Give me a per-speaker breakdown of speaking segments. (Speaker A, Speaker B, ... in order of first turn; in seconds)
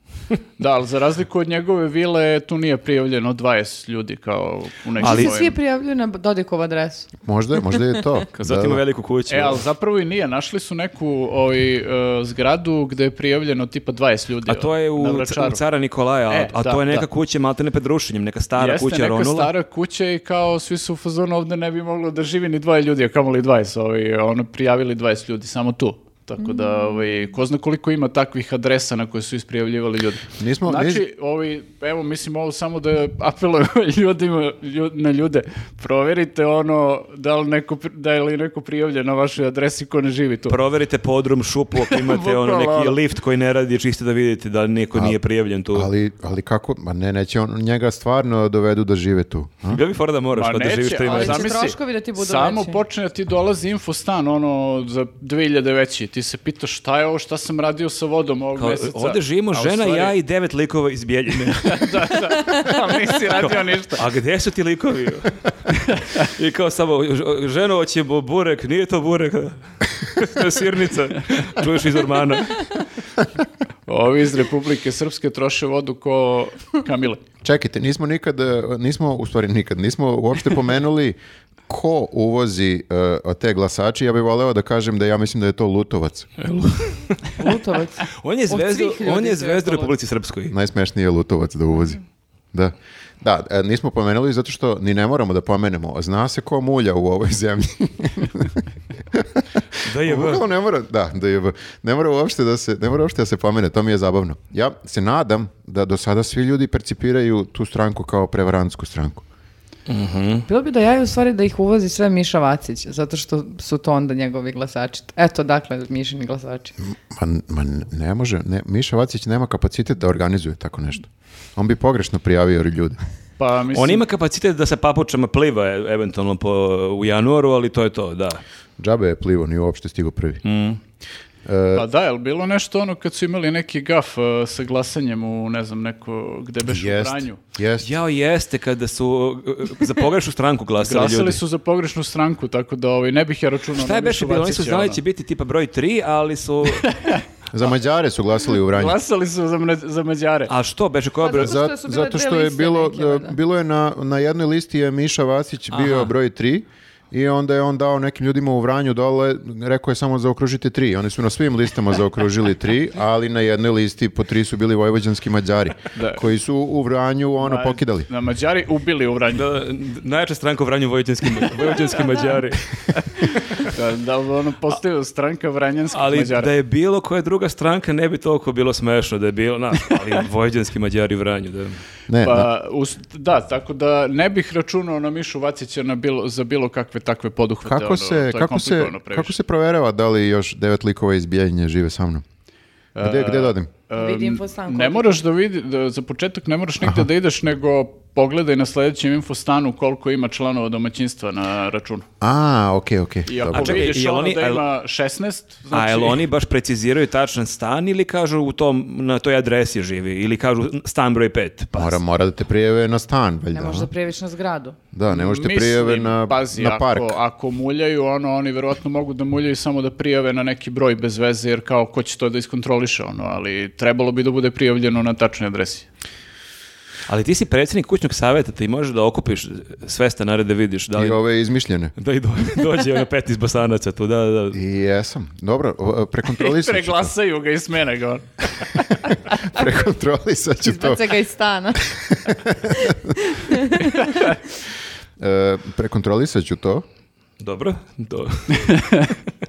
Speaker A: 0.6-5.5, 9.3-15.6, 16.3-17.1, 18.6-40.6, 41.8-43.0, 50.3-60.1, 61.5-64.0, 73.9-77.2, 123.4-124.0, 131.7-137.4, 140.8-145.0, 146.8-147.2, 148.6-150.5, 165.9-166.2, 167.4-169.5, 173.6-176.5, 182.2-189.3, 192.9-202.1, 203.3-206.2, 215.1-225.9, 236.4-238.9
Speaker B: 5.0-7.1, 26.4-27.0, 51.0-52.8, 87.4-89.9, 110.5-116.7, 151.2-153.4, 193.9-195.2, 213.5-214.8, 240.6-241.9, 242.7-244.3
Speaker C: 5.0-5.3, 8.4-9.6, 14.5-19.5, 40.5-45.9, 49.7-51.6, 58.6-62.2, 63.3-65.4, 66.2-72.8, 86.4-87.3, 88.1-90.5, 99.8-100.5, 109.9-110.5, 123.7-128.4, 130.4-130.8, 137.8-141.4, 143.8-146.9, 150.5-151.6, 155.7-156.1, 169.3-173.2, 175.9-181.8, 203.5-204.6, 205.7-212.0, 227.1-231.2, 232.0-234.6, 247.4-249.0
Speaker D: 7.2-8.8, 30.4-31.0, 45.7-49.8, 77.4-81.2, 81.7-86.3, 90.5-92.0, 92.5-99.5, 100.0-109.2, 116.8-123.0, 128.8-130.4, 131.5-131.8, 136.6-137.9, 147.5-149.0, 151.4-168.1, 182.1-182.5, 187.7-192.2, 193.0-193.7, 202.2-203.9, 211.8-213.9, 214.9-217.2, 230.9-231.9, 234.5-237.1, 239.4-241.1, 241.8-243.2, 245.2-246.8